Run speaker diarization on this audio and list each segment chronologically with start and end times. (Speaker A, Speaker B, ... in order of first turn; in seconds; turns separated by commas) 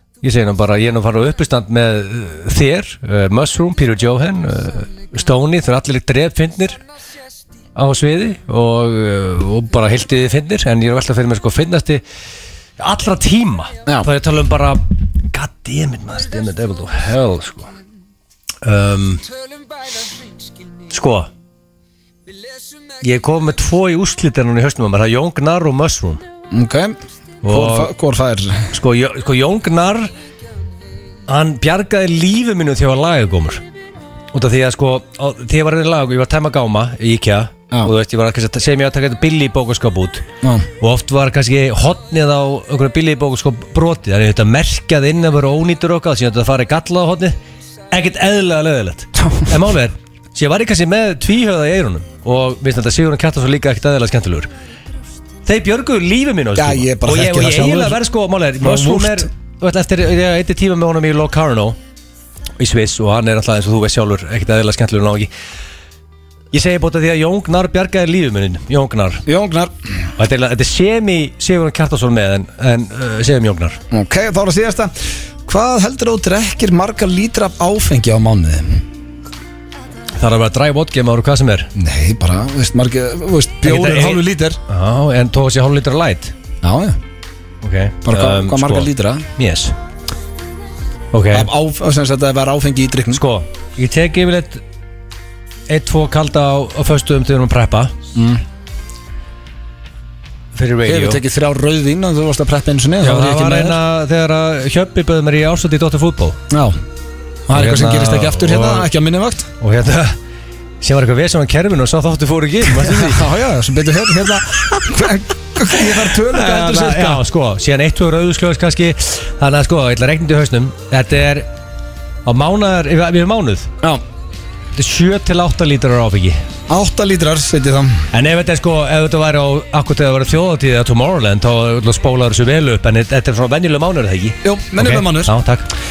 Speaker A: 0.2-6.8, Speaker A: 7.8-12.0, Speaker A: 12.8-17.7, Speaker A: 18.6-19.2, Speaker A: 20.9-21.3, Speaker A: 23.0-26.2, Speaker B: 26.5-28.7, Speaker A: 27.4-27.9, Speaker A: 28.7-30.1, Speaker A: 31.3-33.6, Speaker A: 34.3-40.2, Speaker A: 40.8-47.4, Speaker A: 47.9-54.5, Speaker A: 55.4-61.8, Speaker B: 56.5-58.0, Speaker B: 58.6-59.3, Speaker A: 62.6-65.3, Speaker A: 66.5-69.2, Speaker B: 69.2-69.7, Speaker A: 70.2-73.8, Speaker B: 73.9-74.9, Speaker B: 75.5-78.8, Speaker A: 80.2-81.7, Speaker B: 81.7-84.6, Speaker A: 83.6-86.3, Speaker B: 86.6-87.0, Speaker A: 87.6-89.7, Speaker B: 88.0-89.3, Speaker A: 91.1-91.5, Speaker B: 91.3-93.2, Speaker A: 93.1-94.6, Speaker A: 95.7-97.9, Speaker B: 98.1-98.4, Speaker A: 100.5-101.2, Speaker B: 100.8-103.8, Speaker A: 103.0-106.4, Speaker B: 106.5-106.8, Speaker B: 107.5-109.5, Speaker A: 107.5-108.9, Speaker A: 109.6-110.2, Speaker A: 110.8-113.2, Speaker B: 112.8-117.2, Speaker A: 116.3-121.5, Speaker A: 122.2-123.7, Speaker A: 124.8-126.4, Speaker B: 126.7-128.1, Speaker A: 128.1-135.7, Speaker B: 134.4-135.3